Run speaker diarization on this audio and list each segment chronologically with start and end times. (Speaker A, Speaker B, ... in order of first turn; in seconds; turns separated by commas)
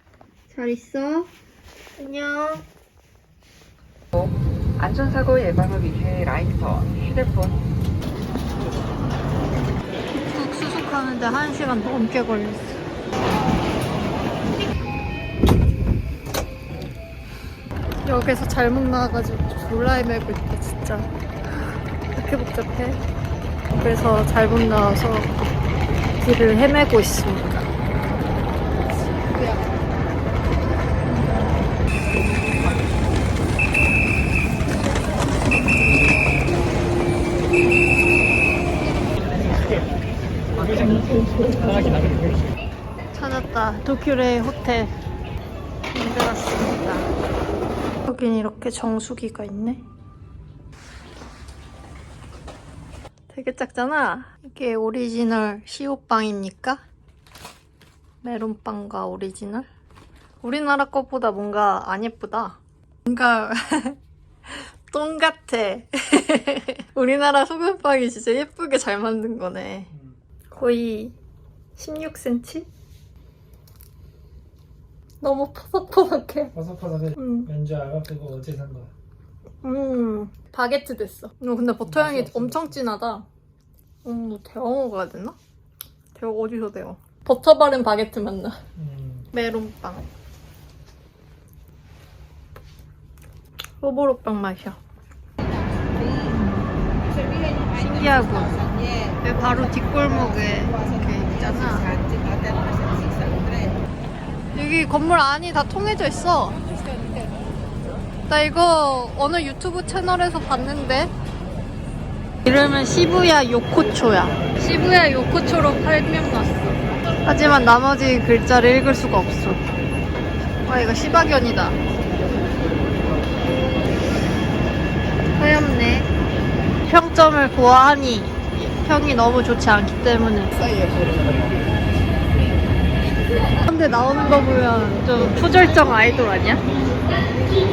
Speaker A: 0.5-1.3, Speaker A: 2.0-2.6, Speaker B: 4.1-7.6, Speaker A: 10.1-12.8, Speaker A: 18.0-21.1, Speaker A: 22.1-23.0, Speaker A: 23.7-25.5, Speaker A: 26.2-27.7, Speaker C: 31.2-31.5, Speaker C: 40.6-42.5, Speaker A: 43.1-44.9, Speaker A: 45.9-47.1, Speaker A: 48.1-49.8, Speaker A: 53.3-56.8, Speaker A: 58.2-59.7, Speaker A: 60.4-64.0, Speaker A: 64.5-69.9, Speaker C: 69.9-70.2, Speaker A: 70.5-71.1, Speaker A: 71.8-72.7, Speaker A: 75.2-76.5, Speaker C: 76.5-78.9, Speaker A: 77.2-77.5, Speaker A: 79.6-83.2, Speaker C: 81.8-82.8, Speaker A: 84.0-85.3, Speaker A: 86.1-88.6, Speaker C: 88.8-89.3, Speaker A: 89.3-90.1, Speaker A: 93.8-94.8, Speaker A: 96.1-96.7, Speaker A: 97.7-98.6, Speaker A: 99.2-102.0, Speaker A: 104.5-106.6, Speaker A: 108.3-111.1, Speaker A: 112.4-119.6, Speaker A: 120.6-121.8, Speaker A: 125.4-126.1, Speaker A: 126.8-130.7, Speaker A: 133.6-136.6